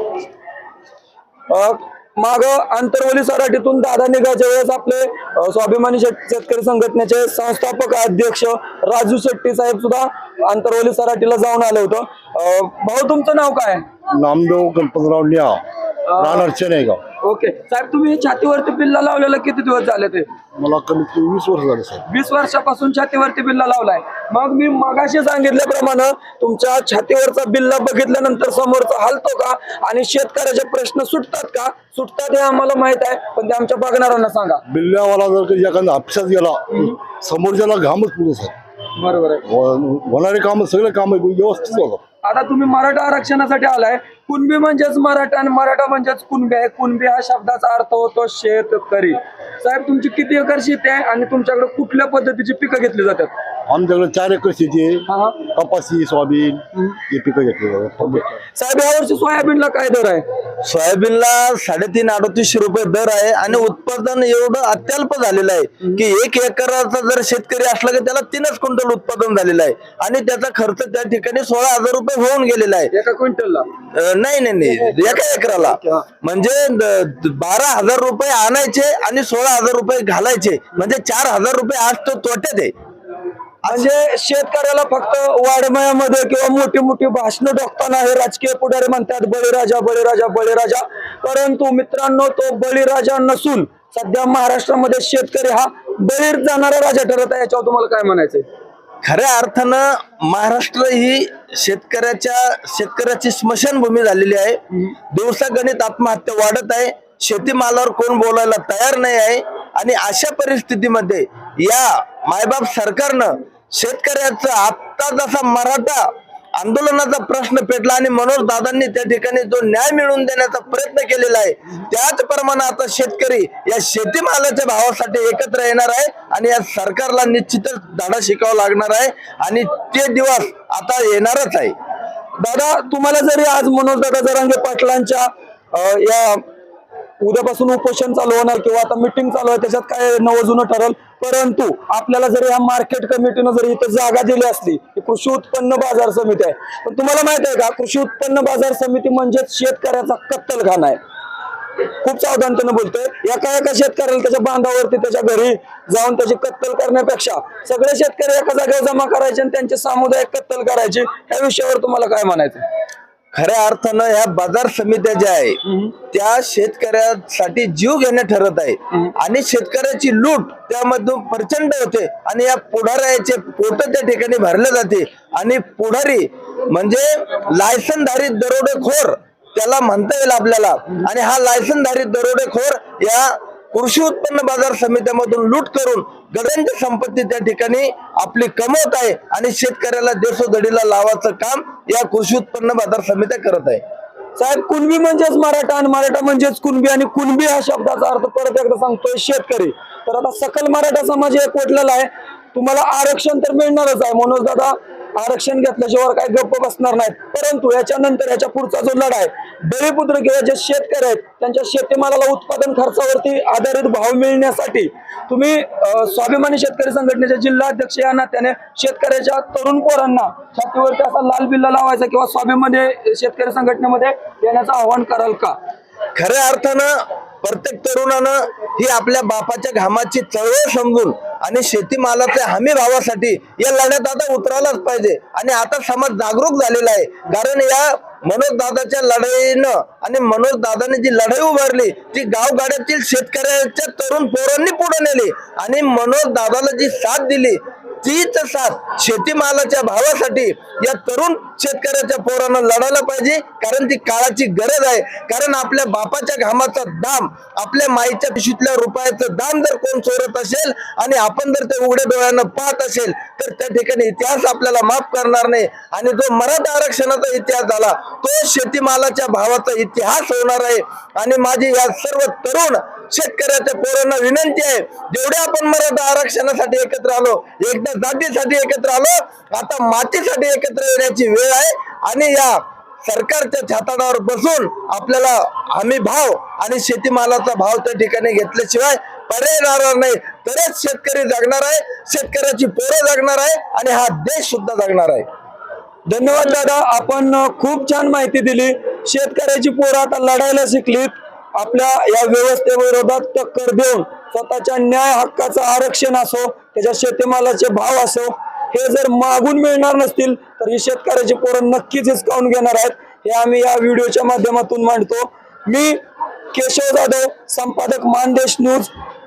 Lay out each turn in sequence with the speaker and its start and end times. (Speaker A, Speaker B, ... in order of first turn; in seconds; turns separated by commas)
Speaker A: 1.5-13.8, Speaker B: 14.1-15.6, Speaker A: 16.1-16.5, Speaker B: 16.2-17.0, Speaker A: 17.2-20.3, Speaker B: 20.6-22.1, Speaker A: 22.1-34.6, Speaker B: 34.7-38.5, Speaker A: 39.0-39.4, Speaker B: 39.5-42.0, Speaker A: 42.2-53.3, Speaker B: 53.7-58.3, Speaker A: 55.1-55.4, Speaker A: 58.5-60.2, Speaker C: 60.6-72.9, Speaker A: 72.9-73.7, Speaker C: 73.9-82.7, Speaker A: 74.7-76.0, Speaker A: 83.7-98.5, Speaker C: 99.0-104.6, Speaker C: 105.1-131.8, Speaker A: 132.4-136.4, Speaker A: 137.2-151.0, Speaker A: 152.0-162.6, Speaker C: 163.3-165.6, Speaker A: 165.7-165.9, Speaker C: 166.1-193.8, Speaker A: 194.4-225.6, Speaker C: 226.2-295.3, Speaker A: 296.1-316.0, Speaker A: 316.5-318.9